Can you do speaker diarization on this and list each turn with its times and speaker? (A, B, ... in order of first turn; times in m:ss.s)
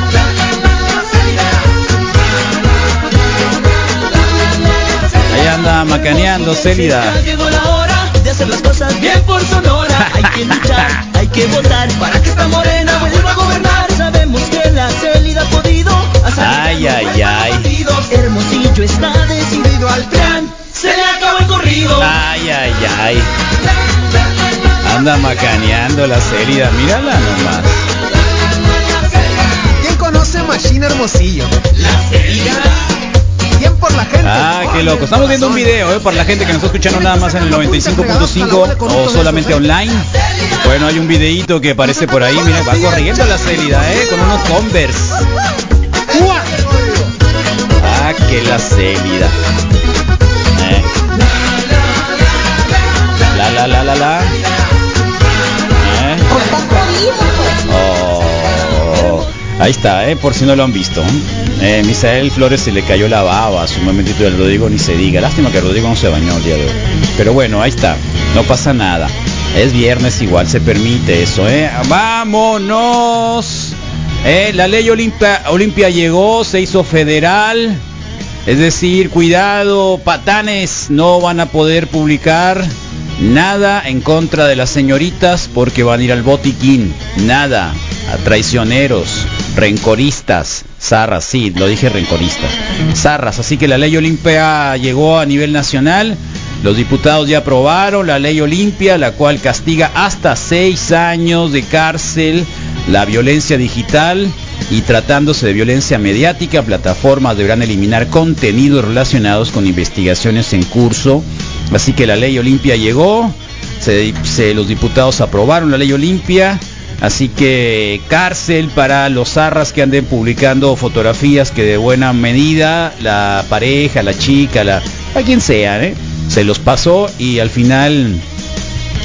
0:05.3-0:07.2 A
0:05.9-0:22.1 B
0:10.2-0:10.6 A
0:16.4-0:17.7 A
0:22.0-0:23.3 A
0:24.8-0:27.8 A
0:29.8-0:32.7 C
0:33.5-0:35.7 C
0:34.2-0:40.1 A
0:37.0-0:39.7 C
0:40.6-0:45.3 A
0:46.1-0:46.7 C
0:47.8-0:49.3 A
0:50.5-0:50.9 A
0:53.3-0:54.3 A
0:55.8-0:56.3 A
0:56.5-0:56.9 C
0:57.6-1:17.8 A
1:18.4-2:08.2 A